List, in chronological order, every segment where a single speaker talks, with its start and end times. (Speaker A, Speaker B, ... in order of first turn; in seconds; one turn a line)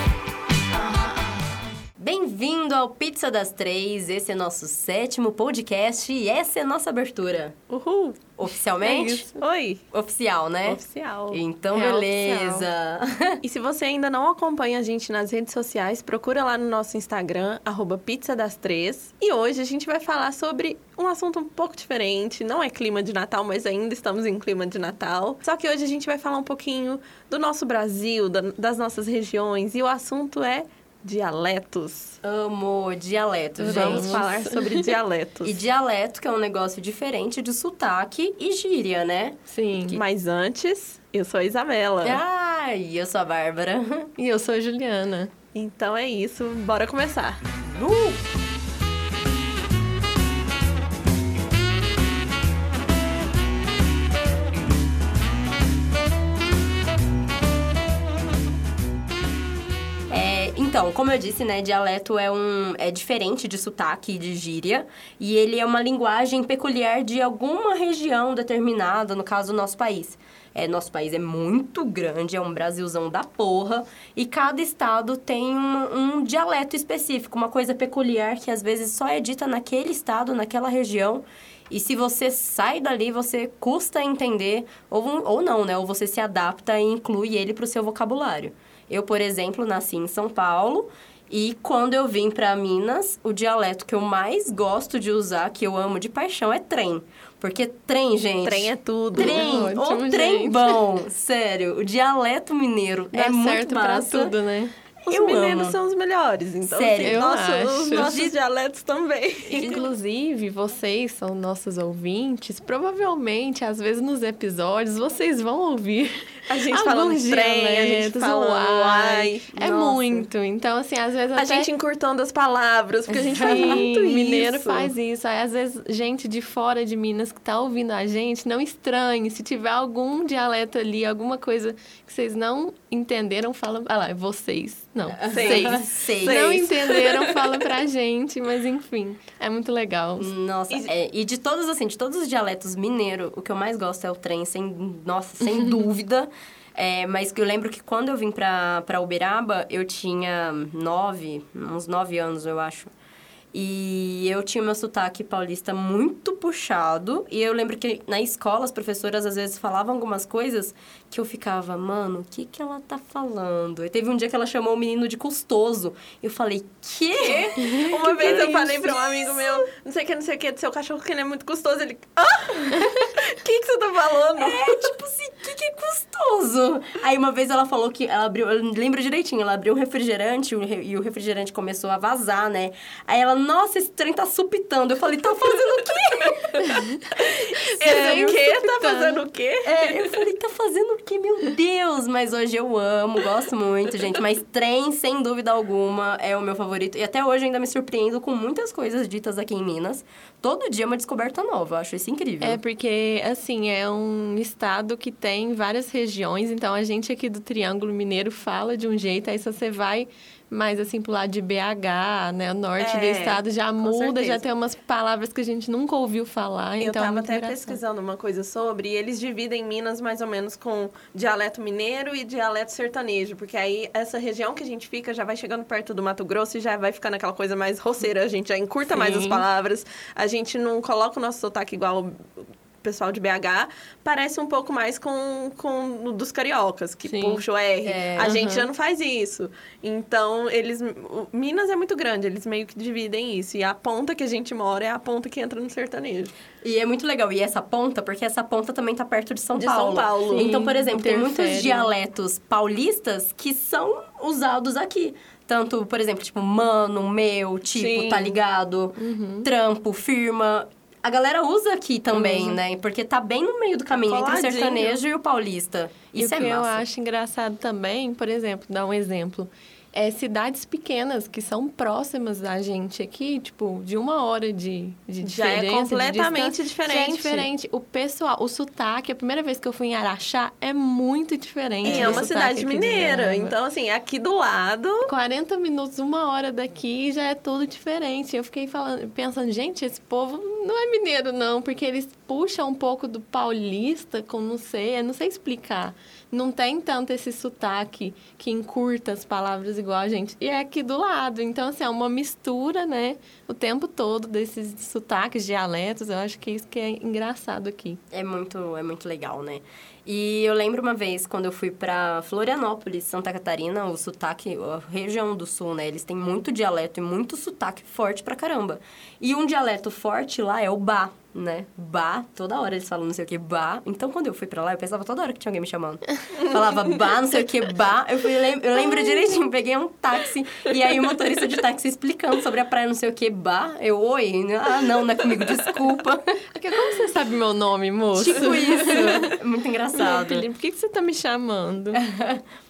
Speaker A: 2.0-7.6
Speaker B: 7.7-9.8
Speaker A: 8.4-9.3
Speaker A: 9.9-13.4
Speaker B: 10.7-11.4
Speaker C: 11.7-12.7
Speaker B: 13.4-32.2
Speaker A: 32.2-34.2
Speaker C: 33.6-34.9
Speaker B: 33.6-35.6
Speaker A: 35.4-40.0
Speaker C: 39.5-40.0
Speaker B: 39.9-42.2
Speaker A: 42.0-44.1
Speaker C: 44.2-45.3
Speaker B: 45.5-47.4
Speaker A: 47.6-48.2
Speaker A: 60.1-104.3
Speaker B: 98.4-99.5
Speaker C: 99.2-100.7
Speaker C: 103.1-104.7
Speaker B: 105.0-109.8
Speaker A: 105.1-105.8
Speaker A: 106.6-107.3
Speaker C: 107.0-108.1
Speaker A: 107.9-108.3
Speaker C: 109.5-121.7
Speaker A: 109.5-109.8
Speaker B: 116.5-119.5
Speaker A: 119.5-120.3
Speaker B: 121.3-124.9
Speaker C: 123.1-140.3
Speaker A: 123.2-123.8
Speaker A: 135.1-136.6
Speaker B: 135.3-137.5
Speaker A: 140.2-152.9
Speaker A: 153.5-169.7
Speaker B: 167.2-174.9
Speaker A: 174.3-186.6
Speaker C: 186.6-189.2
Speaker B: 187.6-190.1
Speaker A: 187.8-188.4
Speaker A: 189.6-202.6
Speaker C: 202.4-217.8
Speaker B: 212.8-214.4
Speaker B: 216.8-246.3
Speaker C: 228.9-229.4
Speaker C: 237.1-237.4
Speaker A: 237.8-238.4
Speaker C: 238.2-238.7
Speaker A: 246.6-266.8
Speaker B: 249.5-250.5
Speaker C: 250.3-251.9
Speaker B: 257.7-258.4
Speaker C: 258.9-259.5
Speaker C: 262.1-262.6
Speaker B: 263.9-265.0
Speaker C: 266.2-283.5
Speaker B: 275.2-277.5
Speaker A: 281.8-282.3
Speaker B: 281.8-285.1
Speaker C: 285.0-308.0
Speaker A: 308.1-336.4
Speaker C: 336.5-339.4
Speaker A: 338.1-340.4
Speaker C: 339.9-342.0
Speaker A: 341.9-342.4